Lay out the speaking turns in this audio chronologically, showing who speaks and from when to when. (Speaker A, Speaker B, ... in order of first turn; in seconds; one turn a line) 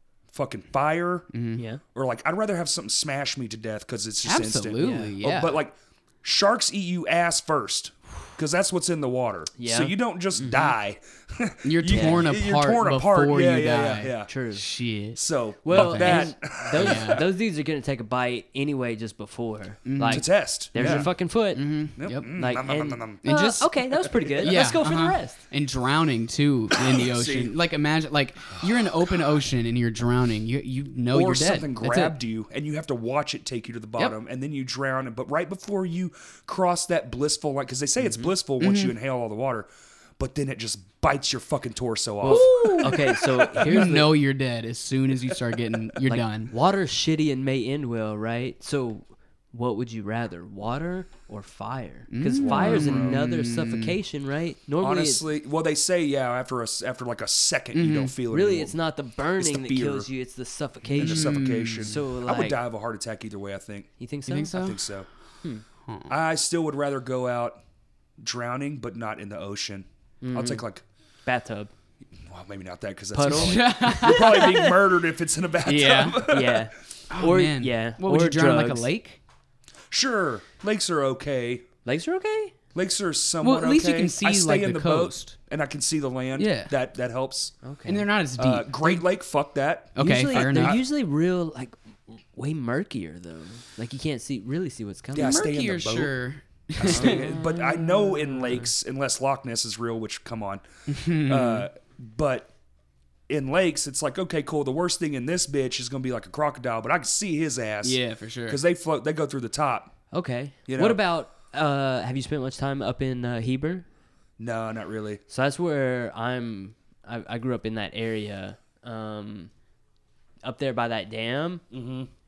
Speaker A: 0.3-1.3
Speaker B: 1.3-1.6
Speaker C: 1.6-1.8
Speaker A: 1.9-14.3
Speaker B: 4.2-5.6
Speaker C: 4.8-5.1
Speaker C: 9.6-10.7
Speaker B: 11.6-17.2
Speaker C: 11.9-12.2
Speaker C: 14.3-14.6
Speaker A: 15.2-17.2
Speaker C: 15.6-21.6
Speaker B: 19.9-22.3
Speaker A: 20.1-21.1
Speaker A: 22.0-23.2
Speaker C: 22.3-25.4
Speaker B: 23.2-23.7
Speaker A: 24.0-24.7
Speaker B: 24.4-32.1
Speaker A: 26.8-27.5
Speaker A: 31.1-43.9
Speaker C: 38.0-38.3
Speaker B: 38.6-38.9
Speaker C: 42.2-44.2
Speaker B: 42.2-46.5
Speaker C: 46.0-55.2
Speaker B: 52.1-54.0
Speaker A: 52.4-53.2
Speaker A: 54.8-58.8
Speaker B: 57.7-58.1
Speaker C: 58.3-62.6
Speaker A: 59.4-60.1
Speaker B: 61.0-62.0
Speaker A: 61.0-63.9
Speaker C: 64.0-64.5
Speaker B: 64.3-64.8
Speaker A: 64.5-65.1
Speaker A: 66.1-67.6
Speaker A: 68.2-70.8
Speaker C: 70.2-70.6
Speaker C: 71.2-71.7
Speaker A: 72.2-76.7
Speaker C: 73.1-74.8
Speaker B: 73.2-74.6
Speaker B: 75.6-76.2
Speaker C: 76.2-78.9
Speaker B: 77.1-79.2
Speaker A: 79.9-81.7
Speaker C: 81.8-82.5
Speaker A: 82.8-87.5
Speaker B: 83.4-85.4
Speaker B: 86.4-86.7
Speaker C: 87.6-88.1
Speaker B: 87.9-89.0
Speaker A: 88.4-90.8
Speaker B: 90.0-90.8
Speaker C: 90.0-95.4
Speaker A: 95.1-96.1
Speaker B: 95.1-97.4
Speaker A: 96.8-100.6
Speaker C: 96.8-98.0
Speaker B: 100.9-101.7
Speaker A: 101.2-102.5
Speaker A: 103.3-109.9
Speaker B: 107.8-108.6
Speaker C: 110.1-113.9
Speaker A: 110.7-111.0
Speaker A: 114.4-115.2
Speaker C: 115.3-119.5
Speaker C: 120.4-121.6
Speaker A: 121.7-122.1